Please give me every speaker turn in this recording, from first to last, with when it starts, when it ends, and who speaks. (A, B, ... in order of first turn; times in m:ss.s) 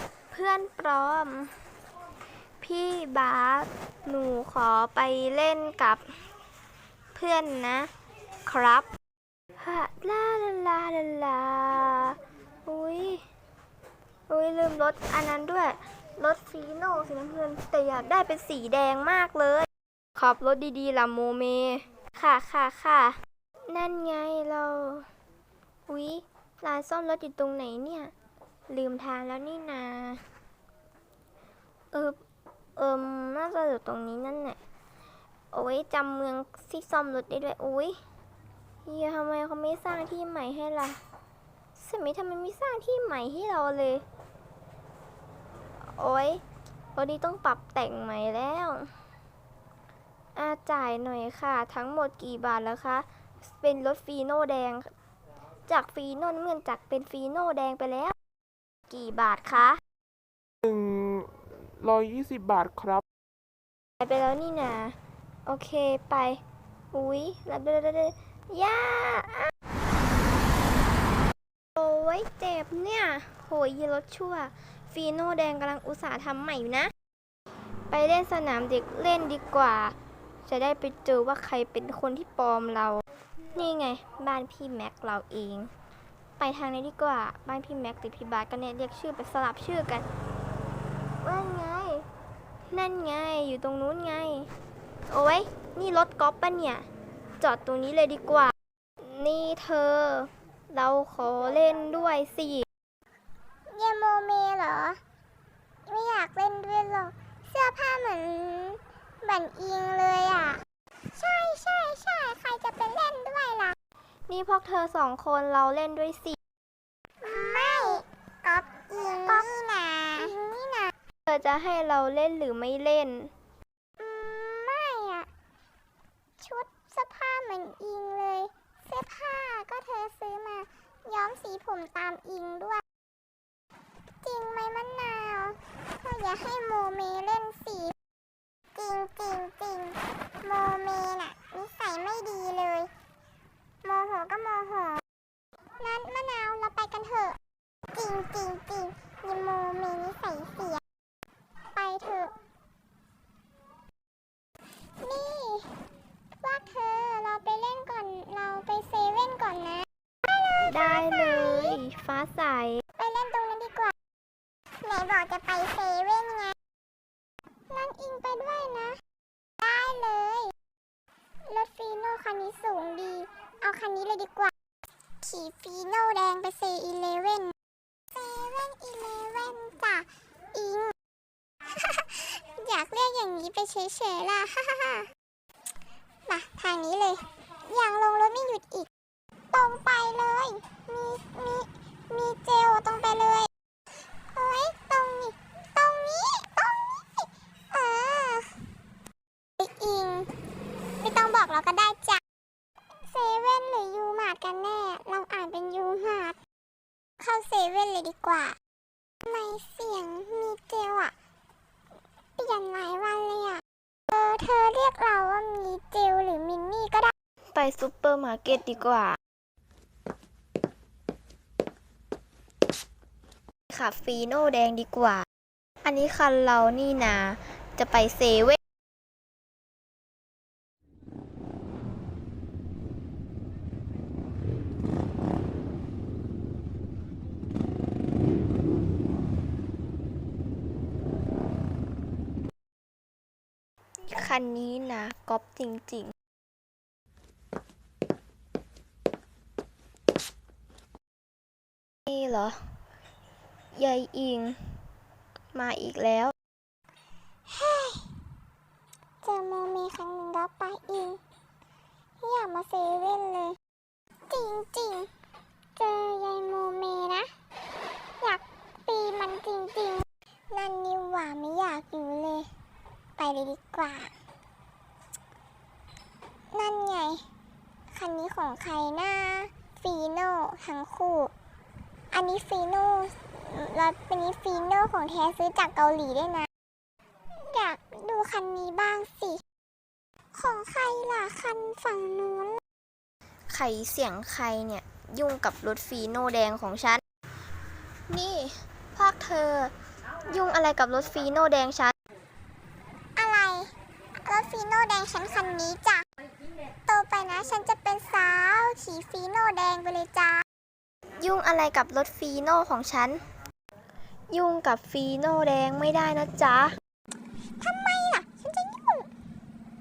0:00.3-0:01.5 A
0:02.6-0:06.0 A
0:07.1-0:07.9 A
0:08.4-0:08.9 A
0:09.6-0:13.2 A
0:14.3-0:23.2 A
0:23.7-0:25.1 A
0:25.9-0:28.1 A
0:28.7-0:30.2 A
0:31.9-0:32.2 A
0:32.8-0:34.6 A
0:35.5-0:38.0 A
0:38.8-0:41.0 A
0:41.8-0:44.0 A
0:45.8-0:46.4 A
0:46.9-0:48.9 A
0:50.3-0:54.9 A
0:55.7-0:58.1 A
0:58.9-0:59.8 A
1:00.6-1:03.0 B
1:04.0-1:06.4 A
1:06.9-1:09.5 A
1:11.8-1:16.9 A
1:17.9-1:23.0 A
1:23.5-1:25.7 A
1:26.4-1:30.0 A
1:31.2-1:32.0 A
1:32.7-1:34.5 A
1:35.1-1:36.9 A
1:37.4-1:42.6 A
1:43.7-1:45.0 C
1:45.9-1:50.6 C
1:51.1-1:53.8 C
1:54.3-1:56.4 A
1:57.2-2:00.9 C
2:01.3-2:03.3 A
2:04.0-2:05.3 C
2:06.4-2:12.8 C
2:14.2-2:18.0 C
2:18.7-2:22.9 C
2:23.8-2:25.0 C
2:25.8-2:27.4 C
2:27.9-2:30.8 C
2:31.7-2:32.3 C
2:35.0-2:35.7 C
2:36.4-2:41.8 C
2:40.6-2:42.8 A
2:43.0-2:43.9 C
2:44.8-2:46.6 C
2:47.7-2:49.0 C
2:49.6-2:50.5 C
2:51.5-2:54.5 C
2:55.2-2:57.5 C
2:58.1-3:00.9 C
3:01.7-3:05.1 C
3:06.3-3:08.9 C
3:09.5-3:13.5 C
3:14.3-3:18.6 C
3:19.6-3:20.3 C
3:21.0-3:22.2 C
3:23.0-3:26.4 C
3:27.2-3:28.6 C
3:29.2-3:31.1 C
3:32.4-3:37.1 C
3:37.5-3:39.2 A
3:43.7-3:45.2 A
3:45.8-3:48.6 A
4:04.1-4:06.1 A
4:12.1-4:12.6 A
4:13.8-4:14.7 A
4:15.5-4:16.3 A
4:17.5-4:18.2 C
4:19.2-4:21.2 C
4:22.2-4:23.6 C
4:24.3-4:25.1 C
4:25.8-4:27.3 C
4:28.2-4:32.5 C
4:33.2-4:34.1 C
4:36.5-4:37.2 C
4:37.9-4:41.3 C
4:42.1-4:46.5 C
4:47.3-4:49.4 C
4:50.3-4:52.6 C
4:53.5-4:57.0 A
4:58.1-4:59.7 A
5:00.2-5:01.9 A
5:03.2-5:03.7 C
5:04.2-5:06.0 C
5:06.9-5:10.4 C
5:11.2-5:13.2 A
5:14.3-5:16.7 A
5:17.6-5:19.1 C